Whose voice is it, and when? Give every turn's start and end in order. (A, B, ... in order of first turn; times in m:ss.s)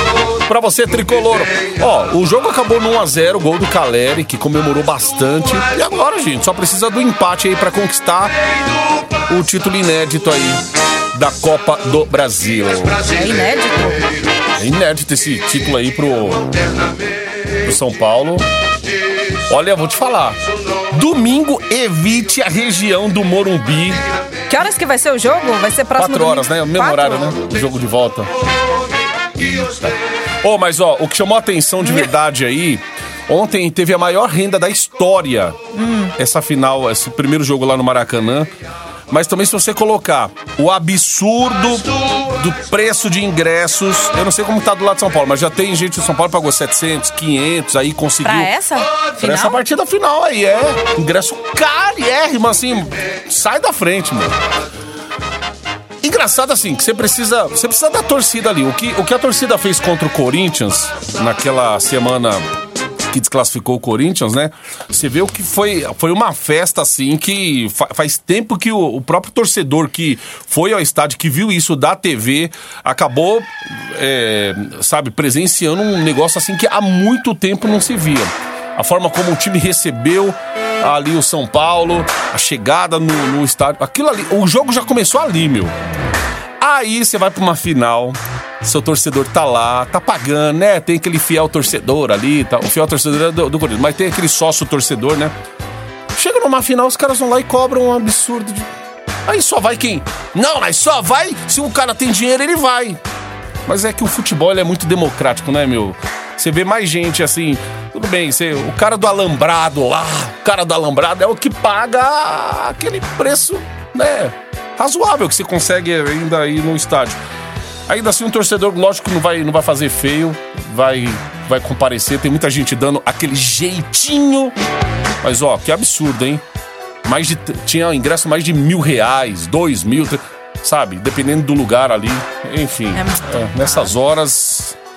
0:00.5-0:08.4 A
0:09.3-0:10.6 A
0:11.1-0:13.1 A
0:13.1-0:14.0 B
0:14.6-0:16.5 A
0:17.6-0:18.4 A
0:19.5-0:20.4 A
0:20.9-0:24.0 A
0:24.5-0:27.3 B
0:26.0-0:28.3 A
0:29.4-0:35.6 A
0:31.8-0:32.1 B
0:35.7-0:36.1 B
0:36.2-0:38.5 A
0:39.1-0:48.5 A
0:48.2-0:49.6 B
0:49.2-0:54.4 A
0:56.0-1:02.4 A
1:03.1-1:25.7 A
1:26.6-1:35.3 A
1:36.1-1:38.7 A
1:39.2-1:43.0 A
1:43.6-1:57.2 A
1:57.9-2:04.6 A
2:05.2-2:06.4 A
2:07.0-2:14.8 A
2:12.9-2:13.9 B